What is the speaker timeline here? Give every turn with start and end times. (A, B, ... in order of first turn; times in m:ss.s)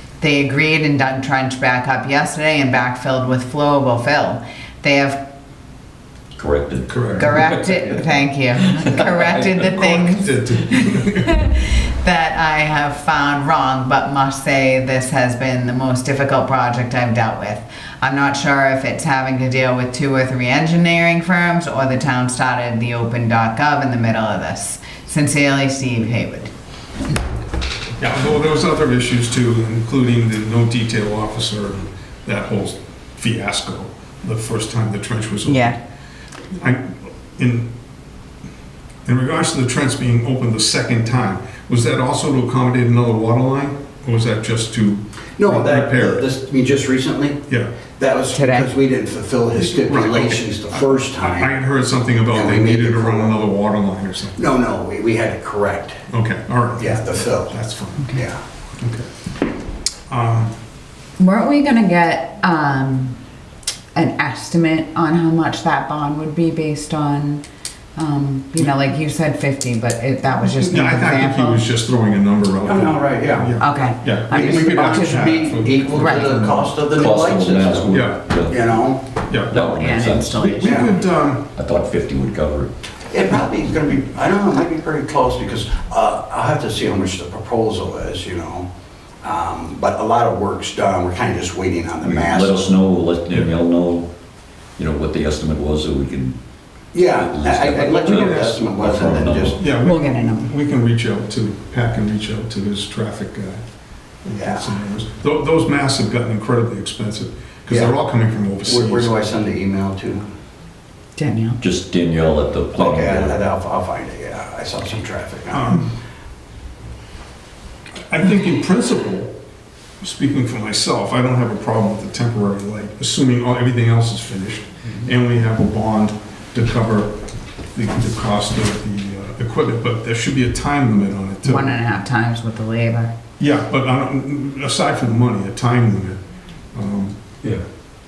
0:00.2-0:05.2 A
0:06.3-0:08.0 B
0:06.9-0:07.4 C
0:07.2-0:26.5 A
0:08.8-0:09.4 B
0:09.8-0:11.3 C
0:28.0-0:35.7 C
0:35.4-0:35.8 A
0:36.5-0:37.7 C
0:39.0-0:46.3 C
0:45.4-0:51.6 D
0:47.5-0:47.8 C
0:48.3-0:48.7 A
0:49.5-0:54.4 C
0:52.3-0:53.4 D
0:54.3-0:56.0 D
0:56.1-0:58.2 C
0:56.8-0:57.6 D
0:58.1-0:58.4 D
0:58.8-0:59.1 C
1:00.1-1:00.5 C
1:01.2-1:03.2 A
1:03.9-1:07.4 A
1:08.0-1:11.6 A
1:10.4-1:16.7 C
1:12.6-1:13.6 D
1:13.6-1:16.5 A
1:14.3-1:19.0 D
1:16.9-1:18.6 B
1:17.9-1:18.3 C
1:19.3-1:19.6 C
1:19.5-1:20.7 B
1:19.5-1:21.0 A
1:20.4-1:21.5 C
1:20.6-1:20.9 D
1:21.5-1:22.7 B
1:23.1-1:28.7 D
1:29.2-1:32.7 D
1:32.0-1:34.1 B
1:34.8-1:36.4 B
1:36.9-1:39.6 D
1:37.0-1:39.6 B
1:37.9-1:38.9 C
1:39.5-1:43.6 C
1:39.8-1:40.5 A
1:44.2-1:49.1 C
1:44.4-1:44.7 D
1:47.7-1:48.0 D
1:48.6-1:50.3 D
1:51.2-1:51.6 A
1:51.6-1:53.4 B
1:52.7-1:55.7 D
1:55.5-1:55.9 C
1:58.1-1:59.3 C
2:00.0-2:07.2 C
2:07.7-2:11.7 C
2:11.4-2:13.1 A
2:13.4-2:16.2 C
2:16.7-2:17.6 C